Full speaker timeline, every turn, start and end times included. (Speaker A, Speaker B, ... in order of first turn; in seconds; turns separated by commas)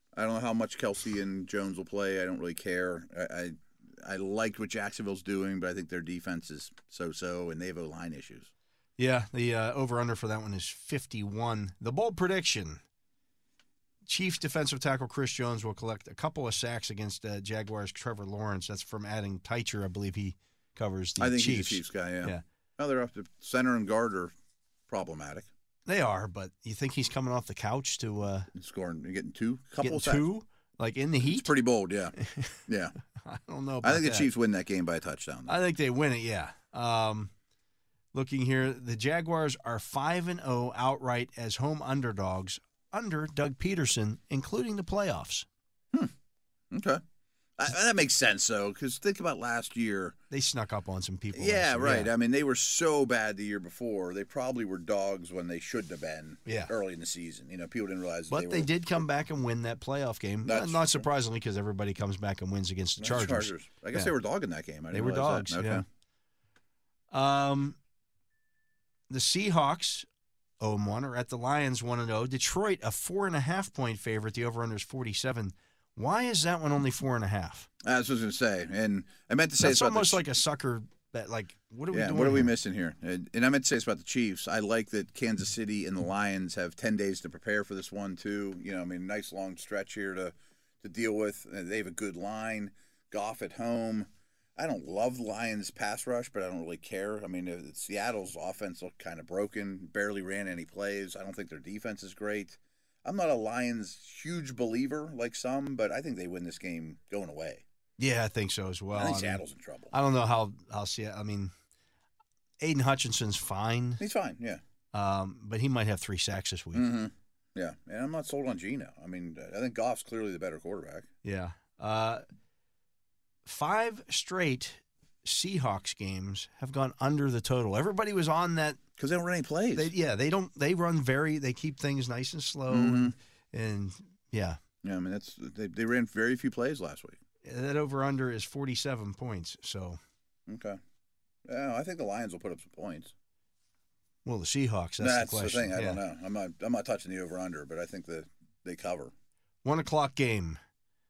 Speaker A: 0.1-8.5, Speaker B: 9.0-12.8, Speaker B: 14.1-22.4, Speaker A: 21.2-24.3, Speaker A: 24.9-25.5, Speaker B: 25.9-28.5, Speaker A: 28.5-30.3, Speaker B: 29.8-31.5, Speaker A: 31.2-32.1, Speaker B: 32.2-32.6, Speaker A: 32.7-33.0, Speaker B: 33.2-34.3, Speaker A: 33.8-35.6, Speaker B: 35.5-37.3, Speaker B: 38.1-45.5, Speaker A: 46.7-47.0, Speaker A: 47.6-50.2, Speaker B: 50.3-52.1, Speaker A: 51.3-59.0, Speaker B: 56.5-56.7, Speaker B: 58.3-64.1, Speaker A: 60.5-61.1, Speaker A: 63.0-65.8, Speaker B: 64.9-65.8, Speaker B: 67.1-67.8, Speaker B: 69.1-70.1, Speaker B: 70.6-77.7, Speaker A: 77.8-80.2, Speaker B: 79.6-82.5, Speaker A: 81.9-107.6, Speaker B: 108.0-111.5, Speaker A: 108.9-109.9, Speaker B: 112.6-114.0, Speaker A: 114.0-114.6, Speaker B: 114.9-116.9, Speaker A: 116.7-121.1, Speaker B: 121.2-122.2, Speaker B: 123.5-128.8, Speaker A: 129.0-129.9, Speaker B: 129.8-134.6, Speaker A: 132.7-133.2, Speaker A: 134.8-137.2, Speaker B: 137.4-140.0, Speaker A: 140.5-140.8, Speaker A: 141.4-143.1, Speaker B: 144.2-146.0, Speaker A: 145.0-149.1, Speaker B: 149.6-150.6